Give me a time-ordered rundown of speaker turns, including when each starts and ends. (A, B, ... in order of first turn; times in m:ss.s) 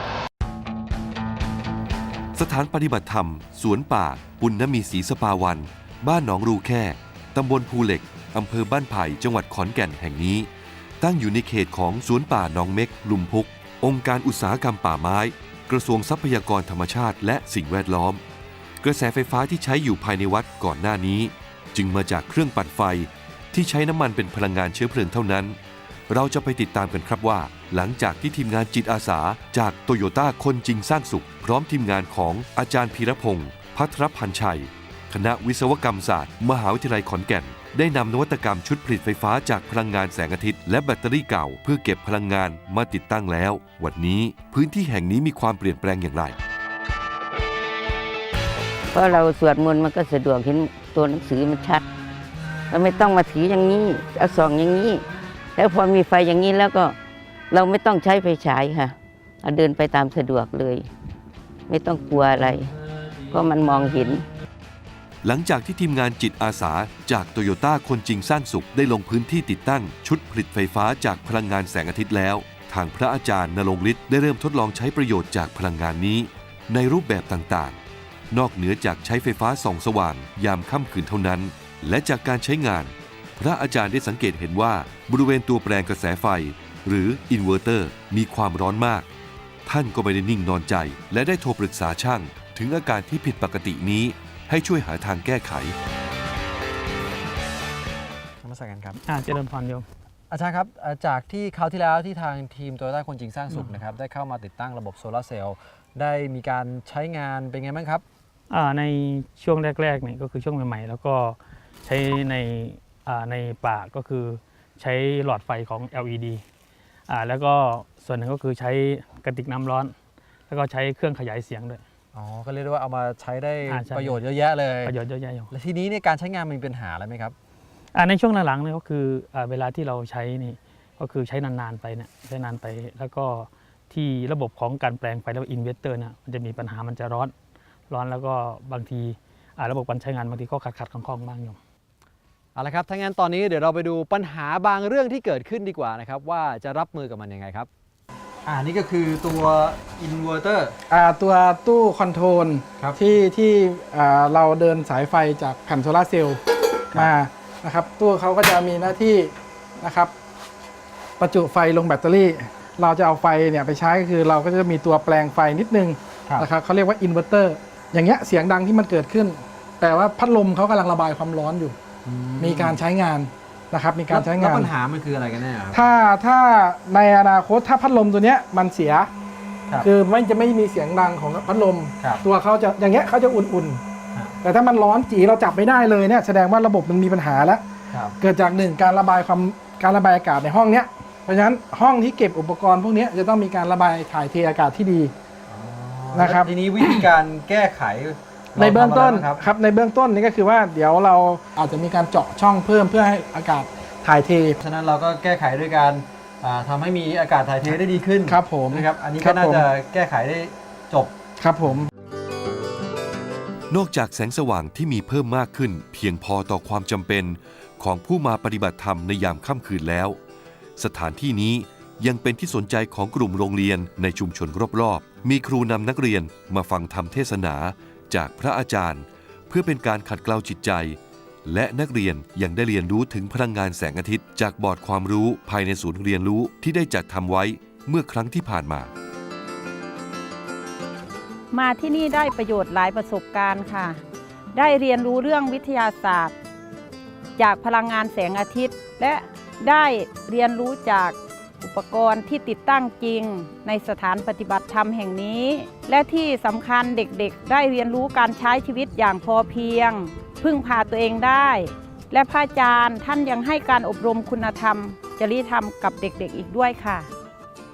0:02.4-0:10.5 A
0:11.0-0:18.2 A
0:18.8-0:25.6 A
0:26.1-0:46.4 A
0:48.9-0:51.8 B
0:52.7-0:55.0 B
0:55.6-0:57.0 B
0:57.5-1:00.9 B
1:01.7-1:02.7 B
1:03.3-1:04.2 B
1:05.2-1:17.8 A
1:18.3-1:29.1 A
1:29.7-1:35.7 A
1:38.4-1:39.0 C
1:39.0-1:39.9 D
1:40.3-1:48.0 C
1:48.5-1:56.4 D
1:57.1-1:59.9 D
2:00.5-2:01.8 D
2:02.1-2:04.9 C
2:03.7-2:04.2 D
2:04.8-2:05.5 D
2:05.5-2:07.4 C
2:08.0-2:17.3 D
2:17.9-2:21.6 D
2:22.6-2:27.7 C
2:28.4-2:30.8 C
2:30.9-2:36.4 E
2:36.9-2:40.1 E
2:41.2-2:51.8 E
2:52.0-2:52.8 C
2:52.4-2:54.7 E
2:54.1-2:55.9 C
2:55.7-2:59.1 E
2:59.8-3:03.8 E
3:04.4-3:07.6 E
3:07.9-3:08.2 C
3:08.2-3:15.1 E
3:15.5-3:19.4 C
3:16.1-3:16.9 E
3:18.6-3:24.6 E
3:24.6-3:31.1 C
3:28.3-3:29.6 E
3:31.4-3:31.9 E
3:33.7-3:40.2 A
3:40.8-3:58.9 A
4:01.5-4:04.0 F
4:04.5-4:06.3 F
4:07.4-4:27.1 F